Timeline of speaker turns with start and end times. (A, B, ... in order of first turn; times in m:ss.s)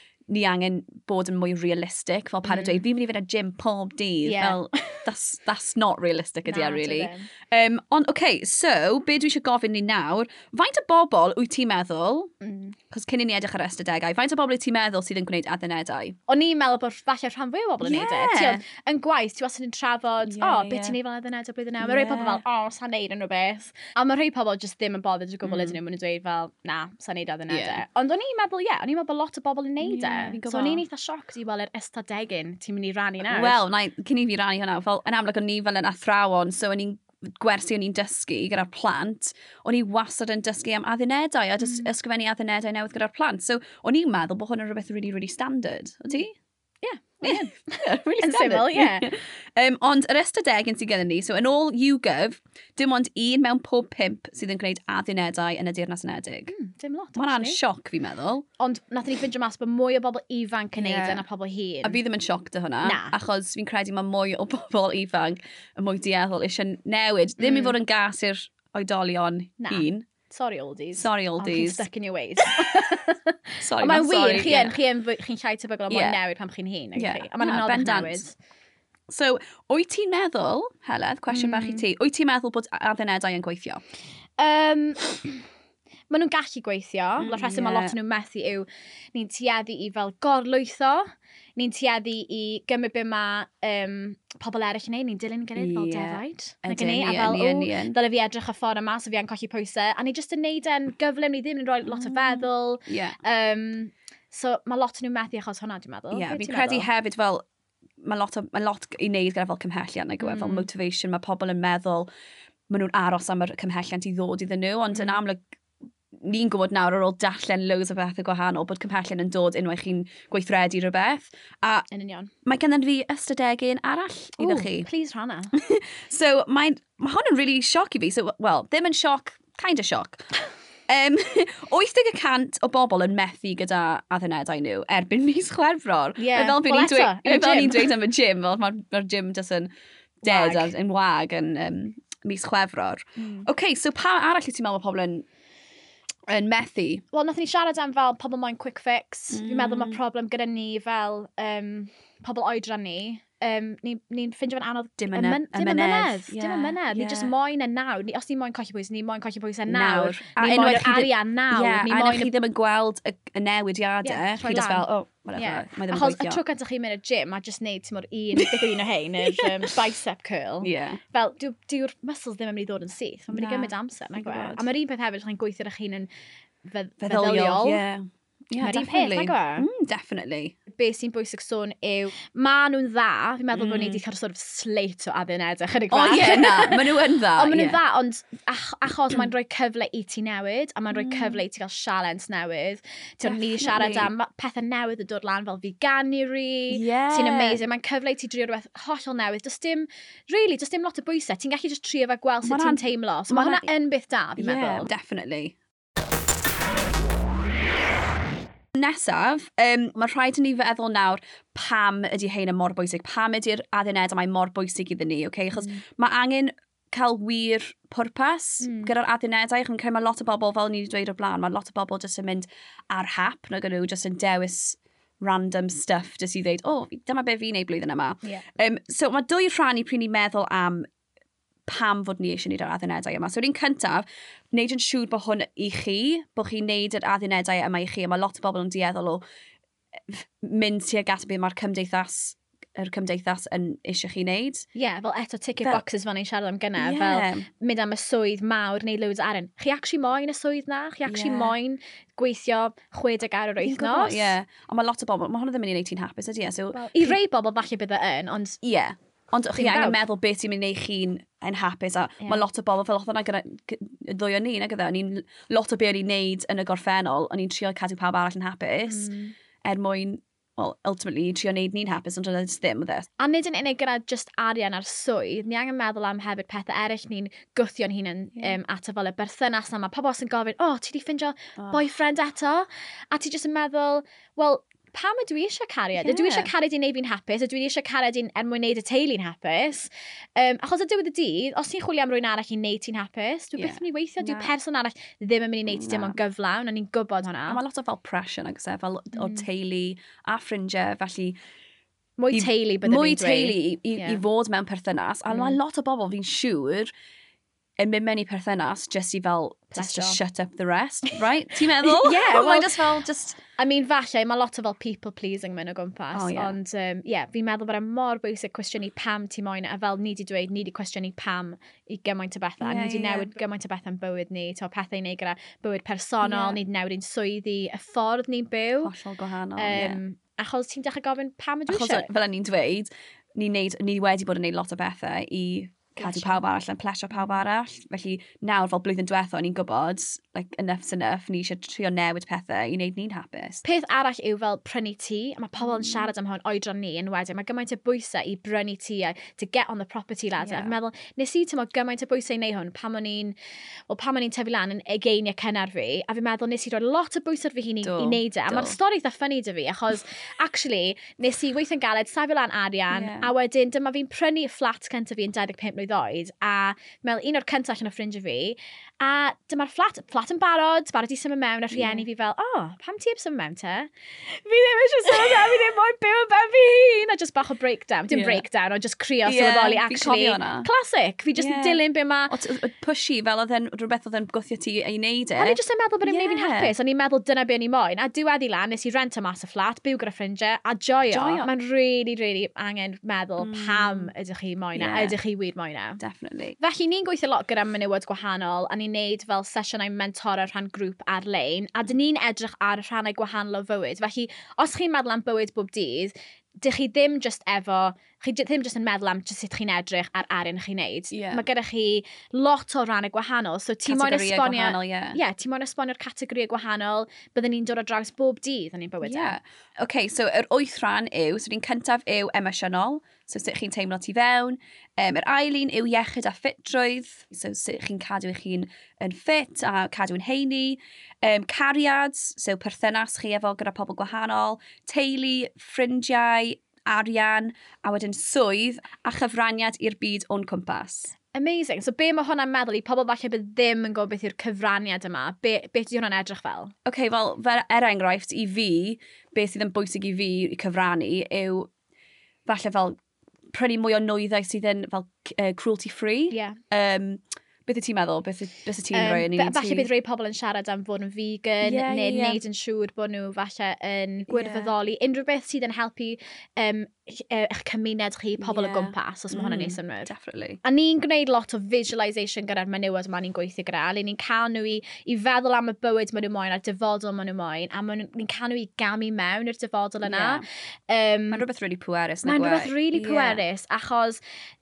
0:00.3-0:12.3 A
0:02.4-0:02.8 B
0:04.2-0:05.0 B
0:06.5-0:07.3 B
0:12.4-0:12.8 B
0:12.9-0:16.2 A
0:16.3-0:33.6 B
0:17.8-0:18.6 A
0:20.2-0:21.0 A
0:21.8-0:22.4 A
0:25.4-0:25.8 A
0:27.5-0:27.8 A
0:29.8-0:30.8 A
0:33.2-0:46.4 A
0:41.6-0:41.9 B
0:46.8-0:49.1 B
0:47.2-0:56.5 A
0:56.5-0:57.6 B
0:57.2-0:58.4 A
0:58.6-1:02.0 B
1:00.8-1:01.2 A
1:01.8-1:10.1 A
1:02.8-1:03.1 B
1:07.4-1:07.7 B
1:09.6-1:18.3 B
1:11.0-1:11.8 A
1:13.6-1:14.8 A
1:15.9-1:16.2 A
1:17.0-1:18.2 A
1:19.1-1:23.8 A
1:21.3-1:21.8 B
1:24.4-1:25.4 B
1:26.1-1:46.9 B
1:27.2-1:27.9 A
1:35.6-1:38.0 A
1:41.8-1:43.2 A
1:46.1-1:47.4 A
1:48.0-1:52.1 A
1:50.2-1:50.7 B
1:52.7-1:55.4 A
1:54.9-1:55.2 B
1:56.1-2:01.9 A
2:01.9-2:02.3 B
2:02.4-2:04.9 A
2:04.4-2:05.5 B
2:05.5-2:10.3 A
2:10.9-2:19.7 A
2:16.2-2:17.9 B
2:20.2-2:20.7 B
2:20.2-2:25.2 A
2:23.2-2:23.5 B
2:26.3-2:27.0 A
2:27.1-2:42.3 B
2:29.3-2:30.0 A
2:35.0-2:37.3 A
2:39.7-2:46.4 A
2:44.0-2:56.1 B
2:48.4-2:49.7 A
2:50.6-2:51.0 A
2:53.3-2:54.7 A
2:56.6-2:57.8 B
2:57.0-3:00.6 A
2:58.6-2:59.7 B
3:00.7-3:24.9 B
3:03.5-3:04.0 A
3:05.9-3:07.8 A
3:10.9-3:11.4 A
3:13.2-3:14.1 A
3:16.7-3:17.6 A
3:22.4-3:23.7 A
3:24.4-3:25.6 A
3:28.7-3:50.8 A
3:38.6-3:38.9 B
3:51.7-3:59.2 A
4:00.1-4:04.6 A
4:04.7-4:14.4 B
4:06.8-4:07.5 A
4:11.0-4:11.5 A
4:13.6-4:17.2 A
4:16.7-4:18.6 B
4:18.6-4:29.1 A
4:19.5-4:20.0 B
4:28.9-4:29.3 B
4:29.6-4:33.1 A
4:33.2-4:57.6 B
4:41.6-4:41.8 A
4:46.0-4:46.5 A
4:53.6-4:54.5 A
4:55.7-4:56.2 A
4:57.5-5:01.4 A
4:59.1-4:59.5 B
5:02.2-5:04.2 B
5:02.3-5:06.9 A
5:05.3-5:05.6 B
5:07.8-5:13.4 A
5:09.7-5:10.2 B
5:11.8-5:12.8 B
5:13.6-5:28.9 B
5:16.1-5:16.5 A
5:22.6-5:23.3 A
5:26.2-5:26.6 A
5:28.8-5:30.0 A
5:29.6-5:32.1 B
5:31.7-5:43.6 A
5:36.0-5:36.4 B
5:43.6-5:53.3 B
5:45.6-5:46.1 A
5:50.4-5:50.7 A
5:53.9-6:22.3 B
5:57.8-5:58.8 A
6:02.9-6:03.3 A
6:11.7-6:12.0 A
6:15.2-6:15.4 A
6:18.1-6:18.4 A
6:19.2-6:20.7 A
6:21.4-6:26.7 A
6:25.3-6:36.0 B
6:31.1-6:31.5 A
6:33.4-6:34.1 A
6:34.7-6:35.2 A
6:36.0-6:36.6 A
6:36.6-6:59.4 B
6:51.1-6:51.4 A
6:53.8-6:55.2 A
6:59.0-7:21.1 A
7:21.3-7:26.7 B
7:26.8-7:31.7 A
7:32.4-7:33.0 A
7:33.5-7:39.9 A
7:36.3-7:36.6 B
7:38.9-7:50.1 B
7:41.6-7:42.4 A
7:44.3-7:44.7 A
7:48.4-7:50.6 A
7:50.6-8:01.4 B
8:00.0-8:00.4 A
8:01.3-8:03.4 A
8:02.2-8:04.2 B